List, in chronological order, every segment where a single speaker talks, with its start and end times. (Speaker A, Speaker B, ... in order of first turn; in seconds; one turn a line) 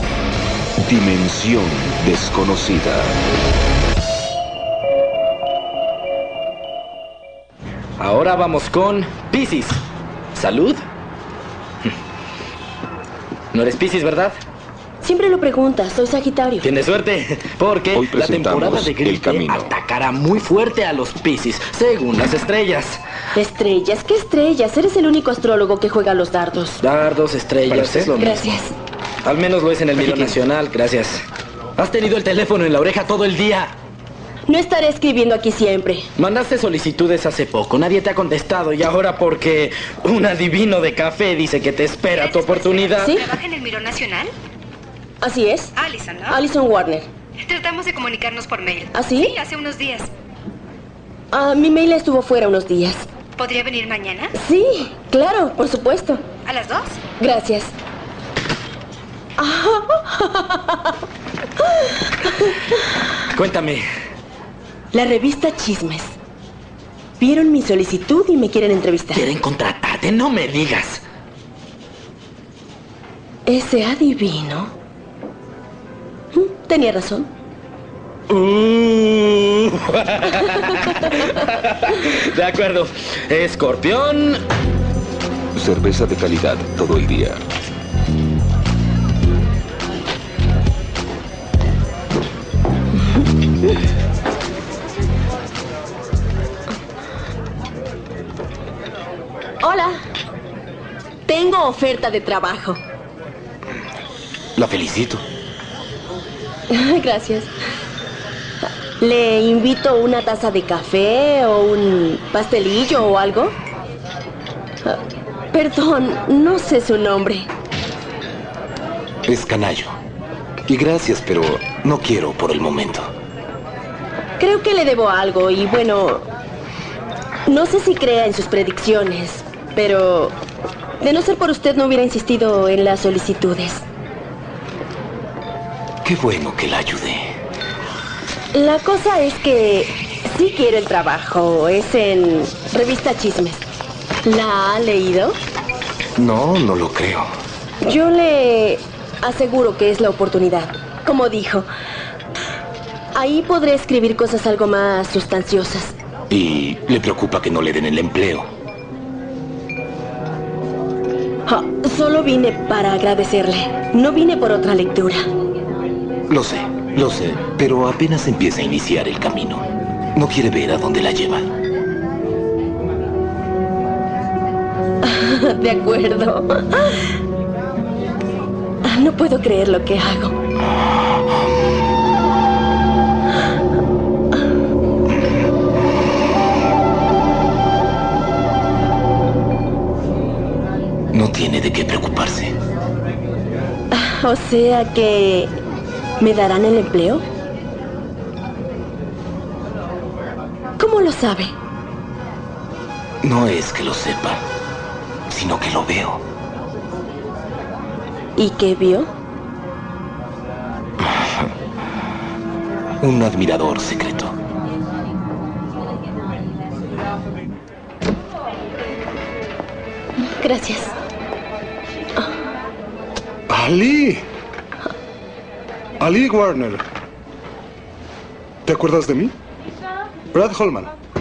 Speaker A: 0.8-3.2
Speaker B: 8.0-9.8
Speaker B: 10.3-10.8
Speaker B: 13.5-14.3
Speaker C: 15.0-16.7
Speaker B: 16.6-23.0
Speaker A: 17.9-19.7
Speaker C: 23.4-26.8
Speaker B: 26.8-28.5
Speaker C: 28.2-28.7
Speaker B: 29.2-31.2
Speaker B: 31.8-33.7
Speaker C: 34.5-36.1
Speaker B: 36.2-43.1
Speaker D: 42.1-44.3
Speaker C: 43.0-43.3
Speaker C: 45.2-45.7
Speaker D: 45.8-46.4
Speaker C: 46.3-47.1
Speaker D: 47.4-50.1
Speaker C: 48.9-49.4
Speaker C: 51.3-53.1
Speaker D: 53.4-54.3
Speaker C: 54.3-56.2
Speaker D: 56.5-57.0
Speaker C: 57.2-57.7
Speaker C: 59.4-60.9
Speaker C: 61.6-62.6
Speaker B: 63.3-63.8
Speaker C: 64.9-66.1
Speaker C: 67.2-69.3
Speaker B: 69.1-71.0
Speaker C: 73.5-74.7
Speaker C: 76.3-77.3
Speaker B: 78.3-84.4
Speaker A: 85.5-87.4
Speaker C: 99.6-100.0
Speaker C: 101.3-102.8
Speaker E: 104.6-105.2
Speaker C: 106.7-107.5
Speaker C: 109.0-113.5
Speaker C: 115.5-117.5
Speaker E: 119.2-120.0
Speaker E: 120.7-123.1
Speaker C: 124.4-126.2
Speaker C: 127.5-130.3
Speaker C: 131.0-133.8
Speaker E: 136.0-137.3
Speaker C: 138.5-143.6
Speaker C: 144.2-145.4
Speaker E: 146.2-147.3
Speaker C: 147.8-151.7
Speaker C: 153.1-155.9
Speaker E: 156.3-158.5
Speaker C: 161.5-165.2
Speaker E: 166.3-169.6
Speaker E: 170.2-171.5
Speaker C: 175.0-177.1
Speaker C: 178.8-180.3
Speaker E: 191.1-192.5
Speaker C: 193.9-195.5
Speaker C: 196.2-197.2
Speaker C: 200.8-201.5
Speaker E: 203.2-204.4
Speaker E: 205.3-206.2
Speaker C: 208.4-209.1
Speaker E: 213.0-214.3
Speaker C: 220.2-220.9
Speaker F: 223.5-224.3
Speaker F: 226.0-226.8
Speaker F: 228.7-229.3
Speaker F: 230.3-230.9